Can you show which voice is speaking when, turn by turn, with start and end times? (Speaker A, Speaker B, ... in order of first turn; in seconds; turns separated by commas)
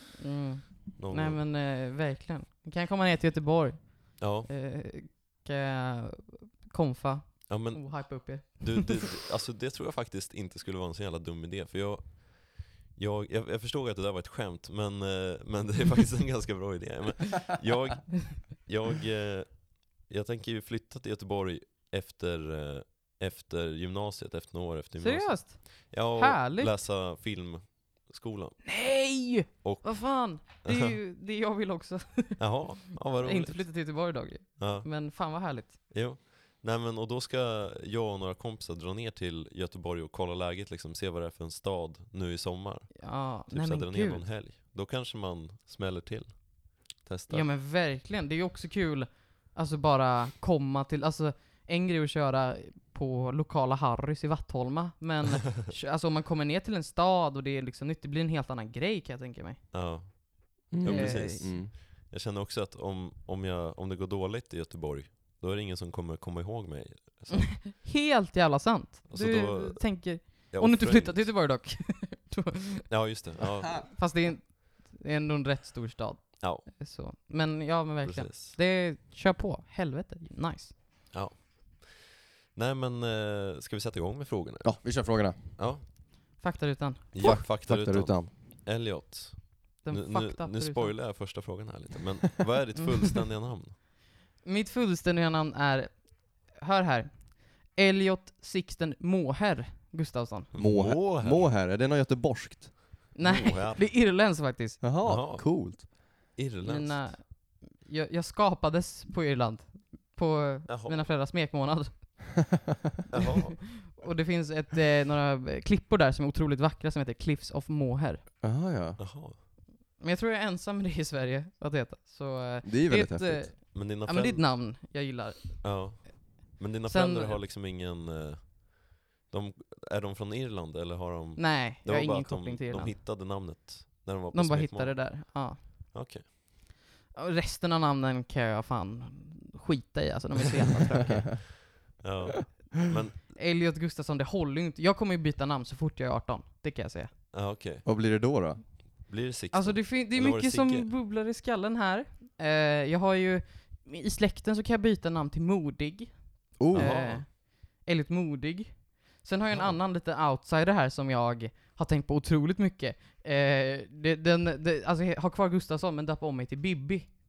Speaker A: 0.2-8.9, Speaker B: 1.0-1.4, Speaker B: 4.2-4.5, Speaker B: 7.5-28.6, Speaker A: 25.0-26.7, Speaker A: 28.7-32.6, Speaker B: 29.6-31.0, Speaker B: 32.4-33.7, Speaker A: 33.2-35.8, Speaker B: 34.6-34.9, Speaker B: 35.9-47.5, Speaker A: 43.0-44.2, Speaker A: 47.3-59.6, Speaker B: 59.7-67.7, Speaker C: 60.7-61.7, Speaker A: 60.8-61.5, Speaker A: 67.5-72.8, Speaker B: 69.1-71.4, Speaker B: 72.9-74.0, Speaker A: 73.8-80.8, Speaker B: 76.4-76.7, Speaker B: 78.0-78.6, Speaker B: 81.1-85.8, Speaker C: 84.6-85.4, Speaker A: 86.4-87.5, Speaker B: 87.1-93.8, Speaker C: 87.2-88.3, Speaker A: 89.8-91.0, Speaker A: 94.4-100.5, Speaker B: 100.5-101.4, Speaker C: 100.6-103.0, Speaker A: 103.1-104.8, Speaker B: 103.2-103.9, Speaker C: 104.8-105.9, Speaker B: 105.0-107.2, Speaker A: 106.6-112.4, Speaker B: 110.7-111.1, Speaker B: 113.1-113.8, Speaker A: 113.2-118.2, Speaker C: 118.4-119.0, Speaker B: 119.0-119.4, Speaker A: 120.0-126.0, Speaker C: 122.6-123.5, Speaker B: 123.7-124.5, Speaker B: 125.6-136.3, Speaker A: 126.9-127.4, Speaker A: 131.4-133.0, Speaker A: 134.3-135.9, Speaker A: 137.1-141.4, Speaker B: 142.0-143.3, Speaker A: 143.3-147.1, Speaker B: 147.3-147.8, Speaker C: 147.8-148.6, Speaker B: 149.1-150.9, Speaker A: 149.5-167.1, Speaker C: 156.6-157.0, Speaker B: 156.7-157.2